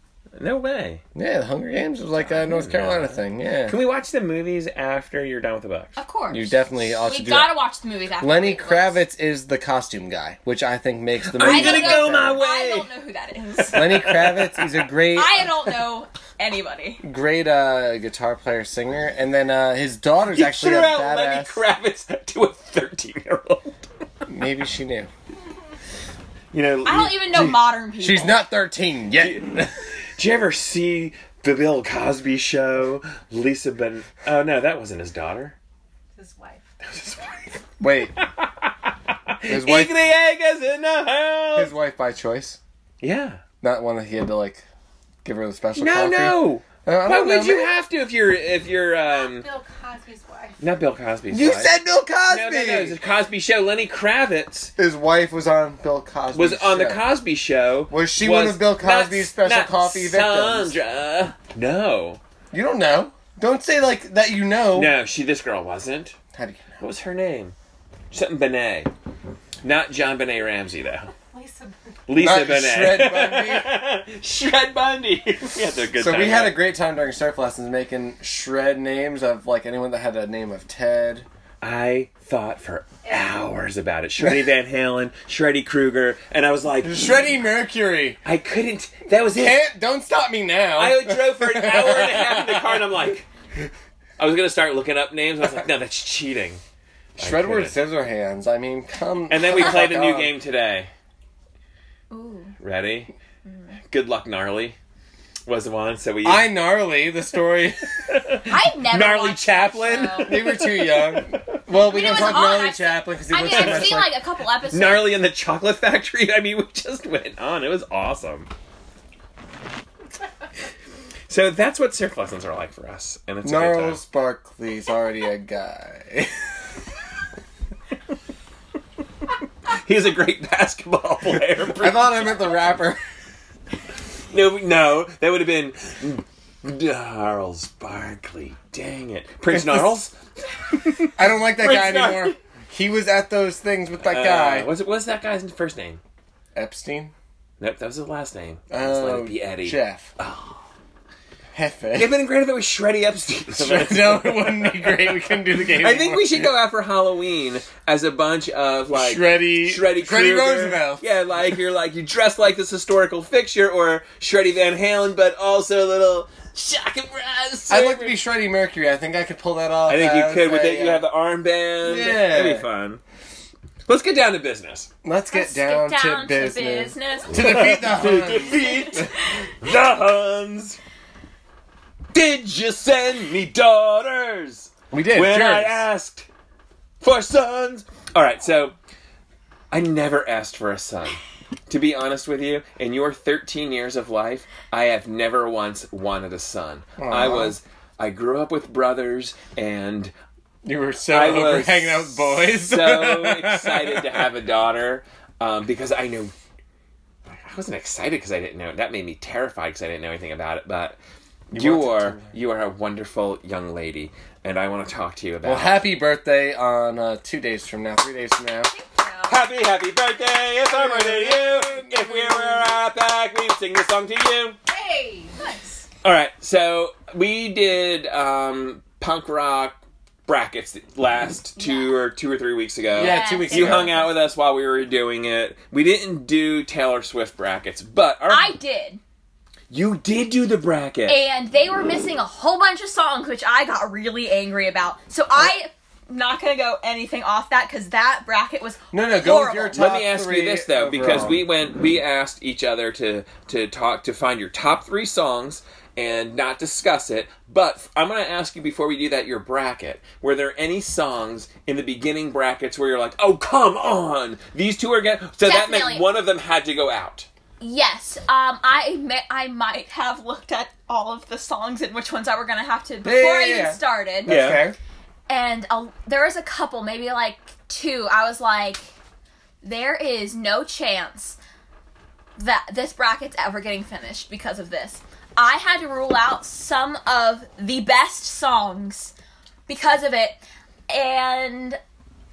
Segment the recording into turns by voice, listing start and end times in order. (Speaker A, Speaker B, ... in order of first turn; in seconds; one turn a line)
Speaker A: 0.4-1.0
Speaker B: 1.1-3.8
Speaker A: 2.2-6.0
Speaker C: 6.0-9.0
Speaker B: 6.3-7.5
Speaker B: 8.2-12.4
Speaker A: 11.3-12.9
Speaker C: 11.4-14.2
Speaker A: 13.6-14.7
Speaker B: 13.7-15.6
Speaker C: 15.1-17.0
Speaker B: 17.0-21.6
Speaker A: 20.3-23.8
Speaker B: 24.3-25.1
Speaker A: 26.5-27.6
Speaker C: 26.9-28.4
Speaker B: 28.0-29.8
Speaker A: 29.2-35.5
Speaker D: 36.1-36.7
Speaker A: 36.8-41.7
Speaker B: 37.8-38.1
Speaker B: 39.5-40.0
Speaker B: 41.5-42.6
Speaker A: 43.0-43.4
Speaker B: 43.6-44.6
Speaker B: 45.2-47.7
Speaker A: 45.8-49.5
Speaker D: 49.0-50.8
Speaker A: 50.6-54.7
Speaker B: 51.3-53.0
Speaker B: 54.8-57.0
Speaker A: 56.3-62.2
Speaker B: 57.9-60.8
Speaker B: 62.5-64.9
Speaker A: 64.7-66.2
Speaker B: 66.3-66.8
Speaker A: 66.8-67.5
Speaker A: 68.1-68.9
Speaker A: 69.6-71.1
Speaker D: 71.3-72.0
Speaker A: 72.1-76.6
Speaker B: 72.2-73.7
Speaker B: 76.0-81.3
Speaker A: 81.6-87.2
Speaker B: 86.8-88.2
Speaker A: 88.2-89.6
Speaker B: 89.3-92.9
Speaker A: 90.8-93.3
Speaker A: 94.2-96.6
Speaker A: 97.2-97.8
Speaker B: 97.2-100.3
Speaker A: 99.3-100.9
Speaker C: 102.1-102.5
Speaker A: 102.6-103.1
Speaker C: 103.5-103.8
Speaker A: 103.9-104.8
Speaker A: 105.5-106.5
Speaker B: 106.2-107.9
Speaker A: 108.0-112.5
Speaker C: 108.4-110.5
Speaker B: 110.2-114.2
Speaker C: 111.8-115.2
Speaker A: 113.4-114.1
Speaker A: 114.7-118.5
Speaker A: 121.3-124.0
Speaker B: 123.4-126.3
Speaker A: 129.7-132.3
Speaker B: 131.8-133.0
Speaker A: 134.3-140.2
Speaker B: 139.5-139.9
Speaker A: 140.7-142.4
Speaker B: 141.1-144.7
Speaker A: 144.0-146.0
Speaker B: 146.6-147.1
Speaker A: 147.6-150.6
Speaker B: 148.7-150.1
Speaker B: 151.5-152.2
Speaker A: 151.9-154.9
Speaker B: 153.6-156.6
Speaker A: 155.6-168.2
Speaker B: 158.9-161.0
Speaker B: 167.7-171.1
Speaker A: 169.9-173.0
Speaker B: 171.8-172.7
Speaker A: 173.9-174.9
Speaker B: 175.0-179.1
Speaker C: 175.3-177.9
Speaker A: 177.3-180.8
Speaker C: 178.5-179.4
Speaker A: 182.1-186.3
Speaker B: 184.9-185.9
Speaker A: 187.0-188.8
Speaker A: 189.7-200.1
Speaker B: 197.0-197.6
Speaker B: 200.6-204.3
Speaker A: 201.1-206.3
Speaker A: 207.3-211.0
Speaker B: 211.5-212.3
Speaker A: 211.5-215.8
Speaker B: 215.4-218.7
Speaker C: 218.7-219.4
Speaker A: 219.3-224.6
Speaker B: 220.6-222.8
Speaker D: 224.7-225.5
Speaker C: 225.4-225.8
Speaker A: 226.0-238.6
Speaker C: 231.6-231.9
Speaker B: 233.0-233.9
Speaker C: 233.0-234.1
Speaker C: 238.3-239.0
Speaker A: 239.7-241.2
Speaker C: 241.1-249.8
Speaker B: 248.9-251.4
Speaker A: 249.7-267.3
Speaker C: 265.4-266.1
Speaker C: 267.6-274.5
Speaker B: 273.0-274.8
Speaker A: 274.3-274.6
Speaker C: 275.3-278.9
Speaker C: 279.6-281.4
Speaker C: 282.4-289.1
Speaker C: 289.7-291.8